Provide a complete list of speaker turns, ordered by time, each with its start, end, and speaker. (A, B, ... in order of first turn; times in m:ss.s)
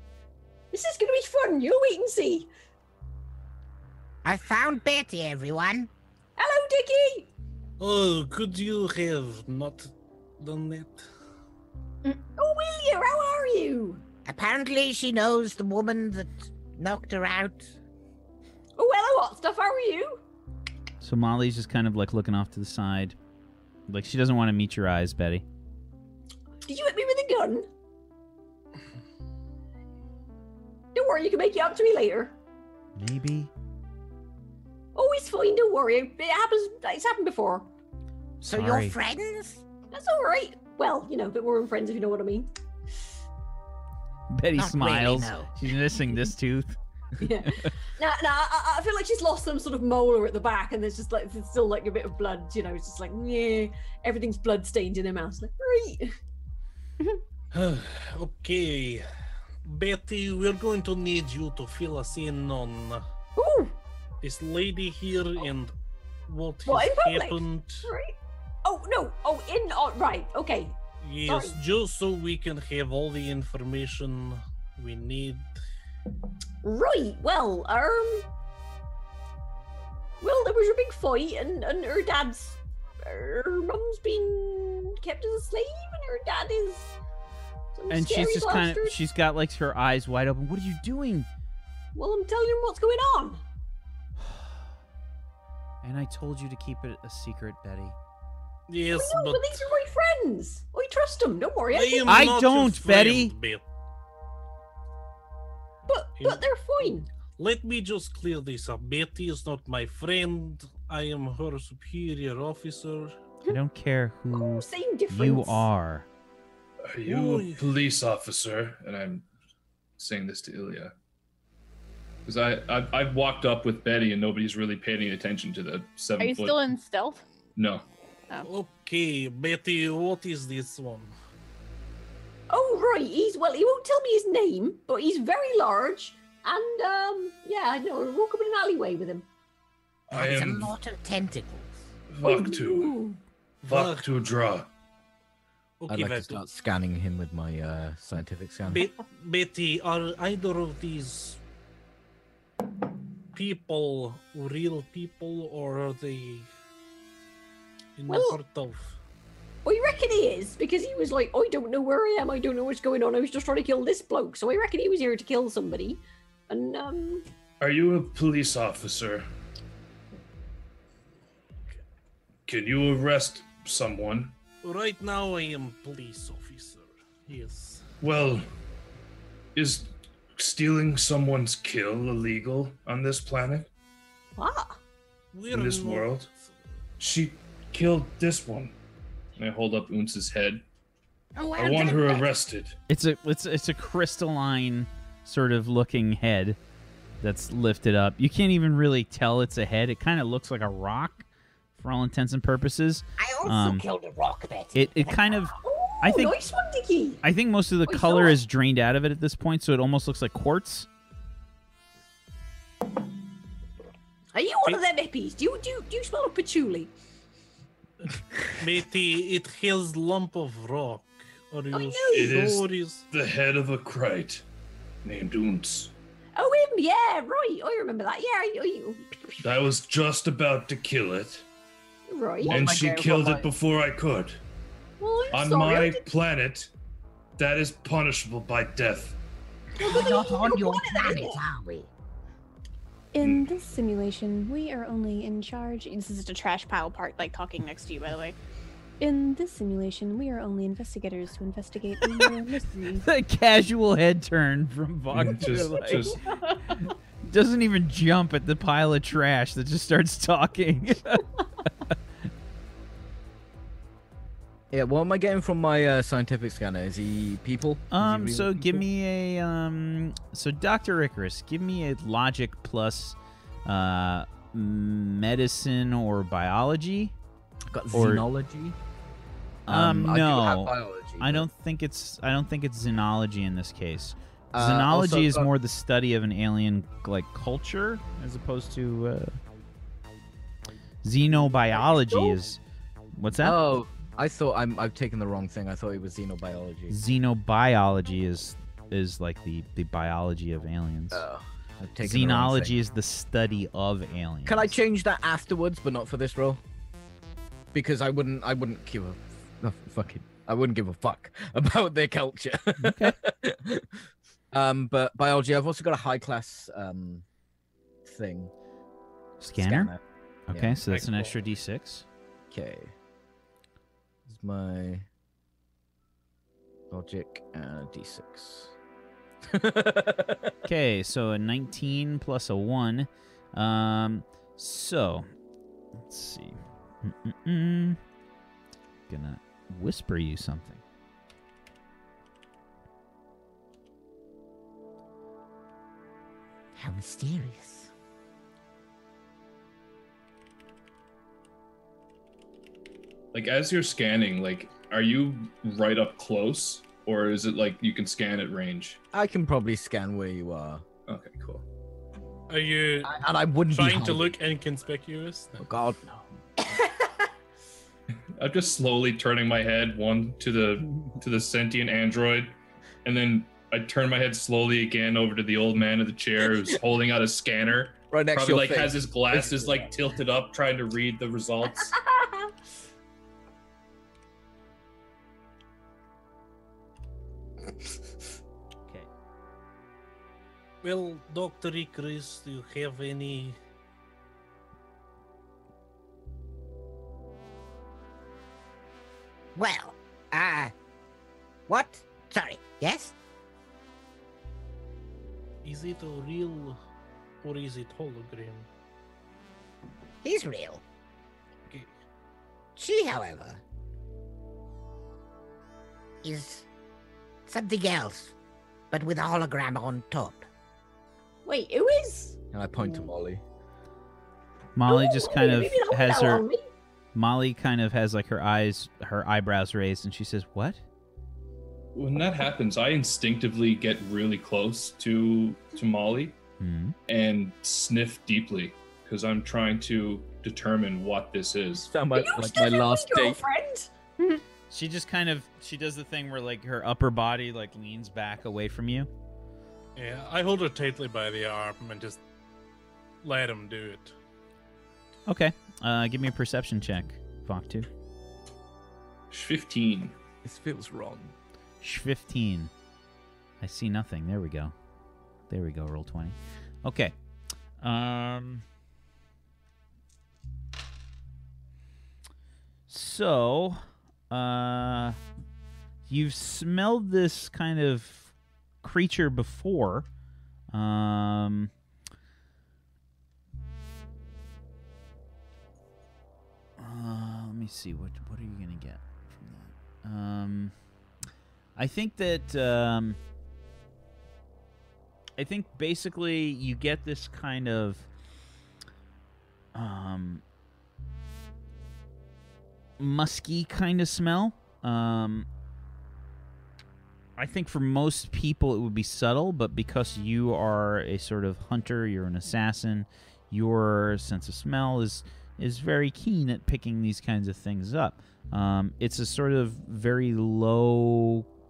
0:00.7-0:02.5 A
0:04.2-0:05.9 B
0:06.4-0:07.3 A
0:07.8-0:11.0 C
0:12.1-0:14.0 A
0:14.3-0:17.7 B
0:18.8-0:20.2 A
0:21.0-0:23.2 D
0:23.9-0:25.4 D
0:26.6-0:27.7 A
0:31.0-0:32.3 A
0:33.0-0:33.5 D
0:35.0-0:37.7 A
0:38.4-0:39.0 D
0:38.4-0:39.6 B
0:39.9-0:42.5 A
0:44.3-0:46.8 D
0:44.6-0:45.5 B
0:47.2-0:56.2 A
0:47.3-0:47.7 D
0:57.5-0:59.0 C
0:59.7-1:03.0 C
1:03.4-1:03.8 A
1:04.2-1:05.7 C
1:06.3-1:07.9 C
1:06.7-1:11.6 A
1:11.0-1:15.5 C
1:16.6-1:18.3 A
1:20.2-1:27.0 A
1:27.8-1:29.0 A
1:27.9-1:31.3 D
1:32.0-1:33.4 A
1:34.2-1:34.5 D
1:35.8-1:38.0 D
1:38.7-1:39.6 C
1:38.9-1:42.2 A
1:41.7-1:43.6 C
1:42.1-1:43.3 D
1:45.9-1:47.1 A
1:47.4-1:53.1 C
1:53.5-1:56.1 D
1:54.3-1:55.7 A
1:56.9-1:59.3 E
1:57.1-1:57.7 C
2:00.0-2:00.9 E
2:02.3-2:06.6 E
2:06.2-2:07.2 F
2:07.6-2:07.8 E
2:08.4-2:11.1 C
2:12.5-2:19.3 A
2:20.1-2:20.8 E
2:20.1-2:21.8 B
2:22.1-2:23.0 E
2:22.2-2:23.2 A
2:23.6-2:24.1 C
2:23.7-2:24.7 E
2:25.8-2:26.4 C
2:25.9-2:28.9 G
2:28.7-2:31.4 C
2:33.3-2:36.5 C
2:38.0-2:39.0 C
2:38.1-2:38.4 A
2:39.6-2:47.2 A
2:47.6-2:49.2 E
2:52.5-2:54.4 E
2:54.6-2:57.8 C
2:58.0-2:58.4 E
2:59.6-3:03.7 E
3:04.4-3:04.8 A
3:05.3-3:06.3 C
3:05.5-3:06.3 E
3:07.0-3:08.8 E
3:09.4-3:10.6 E
3:11.4-3:12.3 B
3:11.6-3:12.8 E
3:12.9-3:16.6 D
3:17.2-3:21.2 D
3:21.8-3:23.8 D
3:23.2-3:25.1 B
3:24.8-3:26.4 D
3:25.3-3:27.2 A
3:27.2-3:30.9 D
3:27.9-3:28.4 A
3:34.3-3:36.9 A
3:38.5-3:43.0 C
3:41.7-3:42.4 A
3:42.1-3:44.4 E
3:45.0-3:45.9 E
3:46.4-3:49.4 A
3:49.4-3:51.4 E
3:52.1-3:52.6 A
3:52.5-3:53.5 G
3:52.5-3:54.4 E
3:55.0-3:56.1 A
3:55.3-3:56.7 E
3:57.4-3:59.2 E
3:59.8-4:01.4 A
3:59.8-4:01.9 B
4:03.1-4:08.4 F
4:03.2-4:03.6 E
4:09.0-4:13.0 F
4:12.1-4:12.4 D
4:13.0-4:16.2 D
4:15.1-4:16.2 E
4:15.4-4:16.8 F
4:16.7-4:22.0 D
4:24.7-4:28.8 G
4:27.9-4:37.1 D
4:37.7-4:38.8 G
4:37.9-4:38.3 D
4:39.7-4:49.4 D
4:39.7-4:41.5 G
4:44.5-4:45.5 G
4:51.0-4:52.6 D
4:51.7-4:52.4 A
4:53.2-4:53.6 D
4:53.4-4:57.0 G
4:56.9-5:01.2 D
5:01.1-5:02.8 G
5:02.0-5:04.8 D
5:04.5-5:06.6 G
5:07.7-5:13.9 G
5:12.8-5:13.2 D
5:14.5-5:17.2 G
5:18.0-5:18.5 G
5:19.4-5:19.9 D
5:19.6-5:20.8 G
5:20.5-5:22.0 D
5:20.9-5:21.4 C
5:22.5-5:22.9 G
5:24.3-5:25.0 G
5:26.9-5:28.7 G
5:29.5-5:30.5 G
5:30.7-5:35.3 D
5:36.0-5:38.0 D
5:39.1-5:40.8 D
5:46.8-5:47.9 B
5:53.3-5:59.0 E
5:59.1-6:00.8 G
6:01.1-6:01.6 E
6:02.5-6:05.7 C
6:03.0-6:04.4 G
6:05.6-6:06.2 G
6:08.4-6:22.0 E
6:18.1-6:19.9 G
6:30.8-6:33.6 C
6:39.6-6:40.7 B
6:41.7-6:43.1 B
6:45.6-6:46.8 C
6:47.4-6:48.7 C
6:50.2-6:50.8 B
6:52.8-6:53.6 B
6:56.2-6:56.7 B
6:57.5-6:58.3 B
6:58.9-7:00.5 B
7:01.4-7:02.4 A
7:02.5-7:03.4 G
7:04.8-7:06.5 D
7:04.9-7:06.6 A
7:07.1-7:10.8 D
7:11.9-7:16.4 E
7:16.6-7:17.0 D
7:17.1-7:21.9 E
7:21.7-7:23.4 G
7:22.1-7:23.9 A
7:24.7-7:29.1 D
7:30.0-7:32.2 C
7:33.2-7:34.1 C
7:35.3-7:37.9 D
7:39.3-7:40.2 E
7:40.4-7:41.3 G
7:41.8-7:42.7 D
7:43.6-7:44.7 D
7:45.5-7:47.2 D
7:47.8-7:48.6 D
7:52.9-7:55.2 D
7:56.1-8:00.1 D
8:00.7-8:01.7 D
8:06.8-8:10.7 D
8:11.8-8:13.2 D
8:15.4-8:18.1 D
8:19.7-8:20.4 D
8:23.0-8:25.5 D
8:27.4-8:41.5 D